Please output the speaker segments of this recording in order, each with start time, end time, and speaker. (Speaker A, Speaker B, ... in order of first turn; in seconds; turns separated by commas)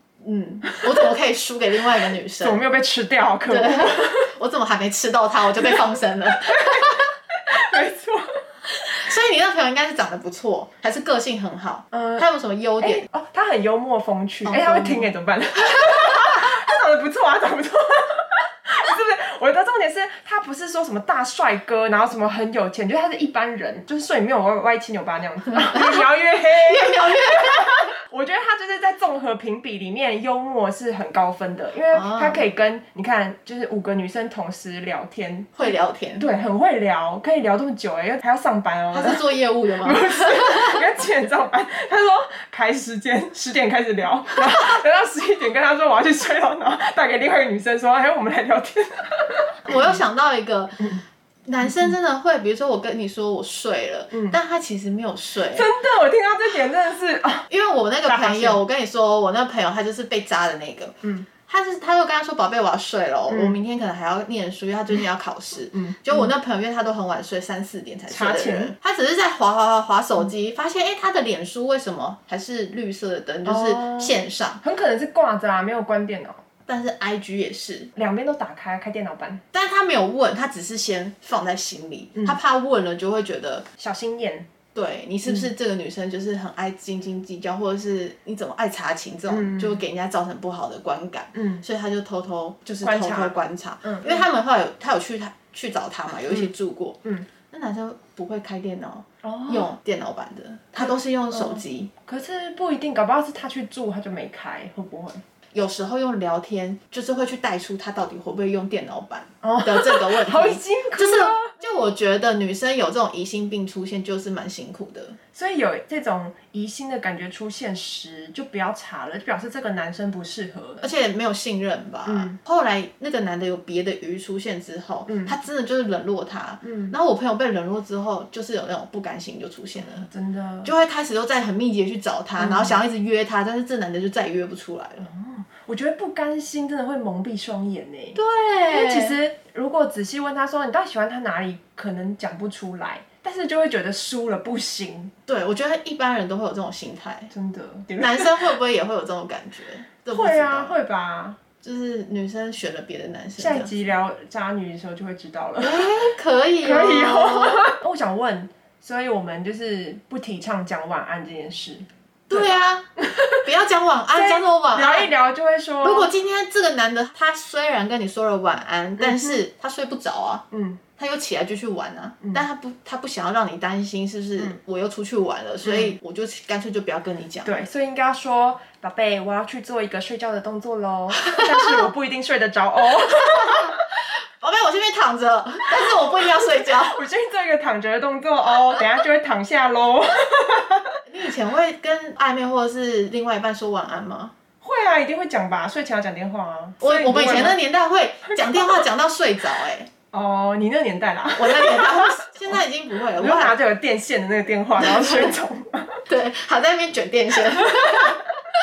Speaker A: 0.2-2.6, Speaker B: 0.7-1.1, Speaker B: 2.4-4.3, Speaker A: 3.5-7.1, Speaker B: 5.6-8.4, Speaker A: 8.8-13.1, Speaker B: 11.9-12.3, Speaker B: 12.8-39.2, Speaker A: 14.4-15.1, Speaker A: 15.9-16.3, Speaker A: 25.5-27.9, Speaker A: 31.9-32.4, Speaker A: 35.6-36.3, Speaker A: 38.9-40.8, Speaker B: 39.8-50.0, Speaker A: 49.7-50.9, Speaker A: 51.5-55.7, Speaker B: 51.7-51.9, Speaker B: 54.1-54.4, Speaker B: 55.5-57.5, Speaker A: 57.5-74.6, Speaker B: 58.0-58.6, Speaker B: 63.3-63.6, Speaker B: 65.7-66.3, Speaker B: 68.1-68.7, Speaker B: 73.5-76.4, Speaker A: 76.7-77.9, Speaker B: 78.0-79.4, Speaker A: 79.5-83.7, Speaker B: 83.8-84.5, Speaker A: 84.8-101.9, Speaker B: 89.3-89.8, Speaker B: 91.3-91.6, Speaker B: 92.8-94.3, Speaker B: 99.2-99.7, Speaker B: 100.8-105.2, Speaker A: 105.5-115.2, Speaker B: 109.4-111.5, Speaker B: 115.3-120.9, Speaker A: 120.8-130.1, Speaker B: 122.1-122.4, Speaker B: 125.1-125.3, Speaker B: 126.6-127.0, Speaker B: 129.8-130.7, Speaker A: 130.6-135.1, Speaker B: 132.4-132.8, Speaker B: 135.0-138.2, Speaker A: 138.2-139.2, Speaker B: 138.7-145.1, Speaker A: 145.3-147.3, Speaker B: 147.3-148.6, Speaker A: 148.0-150.8, Speaker B: 150.1-151.4, Speaker A: 151.6-153.7, Speaker B: 153.4-155.9, Speaker A: 155.6-157.7, Speaker B: 156.6-163.5, Speaker A: 162.3-162.9, Speaker A: 163.4-165.1, Speaker B: 164.1-166.1, Speaker A: 165.8-170.5, Speaker B: 169.0-169.4, Speaker B: 170.5-170.8, Speaker A: 171.0-177.6, Speaker B: 175.6-176.0, Speaker B: 177.4-183.8, Speaker A: 181.2-181.9, Speaker A: 183.2-187.0, Speaker B: 185.8-191.0, Speaker A: 191.1-194.3, Speaker B: 194.6-197.6, Speaker A: 196.8-199.9, Speaker B: 198.3-198.9, Speaker B: 200.1-202.6, Speaker A: 201.4-203.6, Speaker B: 203.2-206.0, Speaker A: 204.8-205.3, Speaker A: 206.1-208.3, Speaker B: 207.7-208.2